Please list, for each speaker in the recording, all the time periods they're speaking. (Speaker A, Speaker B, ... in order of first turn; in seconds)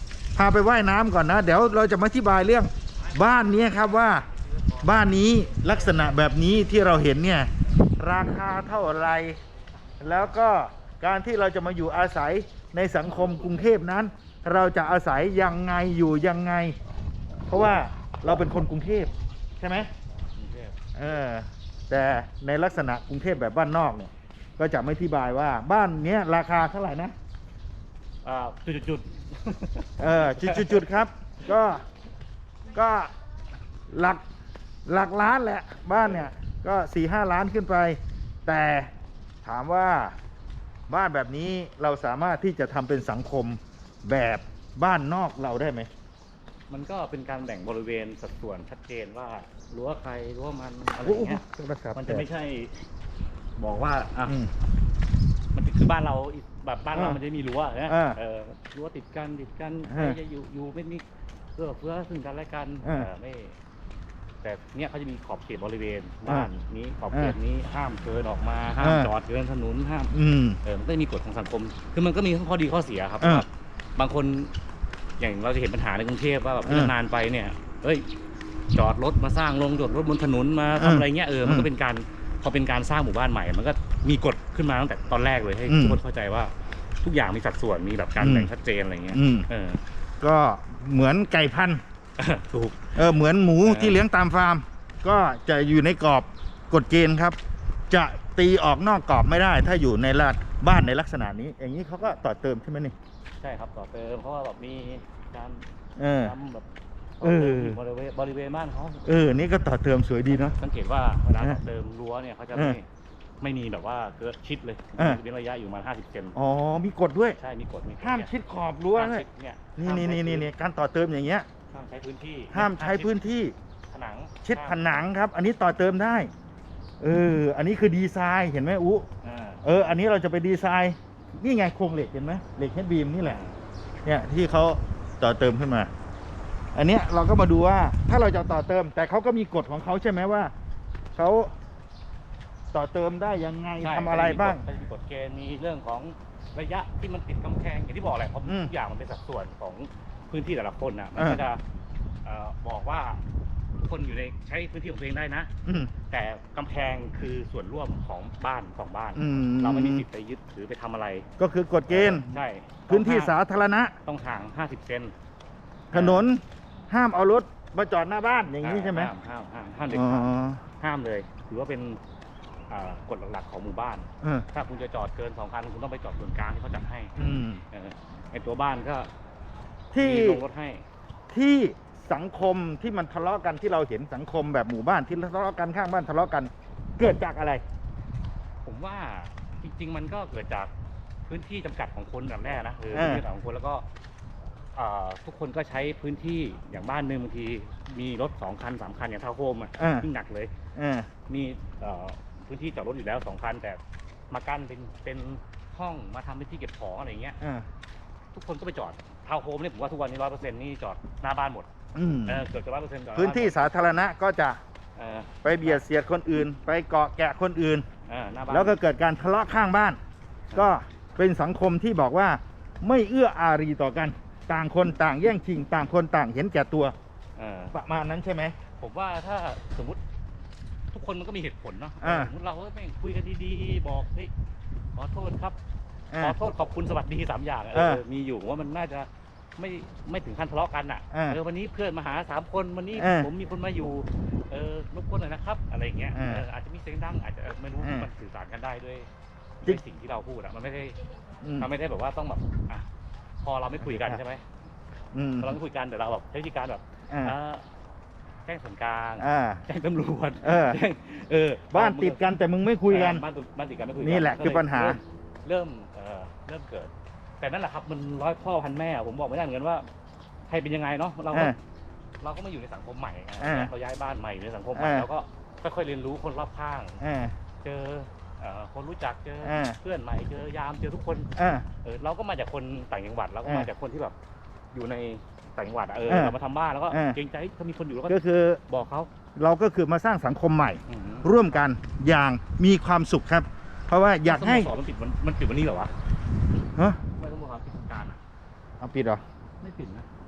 Speaker A: 0.3-4.2, 4.8-7.5, 8.0-9.4, 10.0-16.8, 17.5-19.9, 20.9-27.1, 30.0-31.8, 32.7-33.1, 33.9-34.2, 34.9-38.9, 39.4-40.1, 40.9-45.9, 51.0-52.3, 54.2-54.5, 56.9-57.2, 57.9-58.2, 59.9-60.2, 62.8-63.1, 68.8-69.1, 70.1-70.6, 73.2-73.4, 76.7-76.9, 80.8-81.7, 85.7-86.0, 88.2-88.5, 89.1-89.5, 90.2-91.8, 92.9-97.4, 97.9-102.9, 106.0-106.3, 107.2-107.8, 109.0-110.5, 112.5-112.8, 116.3-117.4, 118.0-119.2, 119.8-121.5, 122.5-123.5, 124.4-126.3, 127.0-129.1, 129.6-133.4, 134.0-135.9, 136.7-140.5, 141.1-141.5, 142.7-144.6, 148.4-148.7, 151.2-151.4, 155.6-155.9, 159.1-160.1, 161.4-162.3, 162.9-163.9, 165.9-169.1, 169.9-170.6, 177.2-177.6, 179.9-180.4, 181.3-187.6, 192.9-193.2, 199.8-200.1, 200.7-201.1, 207.4-207.7, 211.9-212.4, 213.1-214.6, 215.4-217.8, 218.5-220.0, 220.5-226.9, 227.7-228.5, 232.0-232.3, 237.7-238.0, 241.1-241.4, 242.9-243.3, 246.1-246.4, 247.8-248.1, 251.4-251.7, 253.8-254.2, 255.1-255.6, 257.1-257.3, 259.2-259.6, 260.4-260.8, 261.7-263.2, 264.0-265.0, 271.3-271.6, 273.4-273.7, 274.7-275.1, 277.0-277.3, 279.4-279.8, 281.4-281.6, 286.1-286.4, 286.9-287.2, 288.1-288.6, 289.4-294.7, 298.8-299.2
Speaker B: 20.3-20.8, 28.2-31.0, 46.7-51.4, 51.9-52.9, 53.6-54.4, 55.5-61.0, 61.5-63.6, 64.4-74.5, 75.2-78.1, 78.7-89.8, 92.2-93.0, 93.6-94.0, 103.4-105.6, 106.2-106.7, 107.2-109.1, 110.3-112.8, 113.4-116.3, 117.4-118.3, 118.9-120.5, 121.7-123.2, 123.9-124.8, 129.2-129.6, 133.2-133.6, 143.8-151.6, 152.2-153.2, 153.8-155.5, 156.1-161.2, 161.9-163.3, 164.0-165.1, 165.9-166.3, 168.6-172.0, 172.7-177.2, 177.7-179.1, 179.9-180.8, 188.6-190.7, 191.3-193.8, 194.7-200.5, 201.3-207.4, 208.3-211.7, 212.2-213.8, 214.9-215.8, 218.1-218.8, 227.4-227.7, 228.8-230.0, 230.9-234.3, 234.9-235.6, 236.2-249.1, 249.6-251.0, 251.6-252.8, 253.4-254.4, 255.4-257.6, 258.4-262.3, 262.9-269.9, 270.5-271.6, 272.2-277.0, 277.6-284.1, 284.7-289.1, 290.9-291.3, 294.2-295.9, 297.1-298.2, 299.6-300.1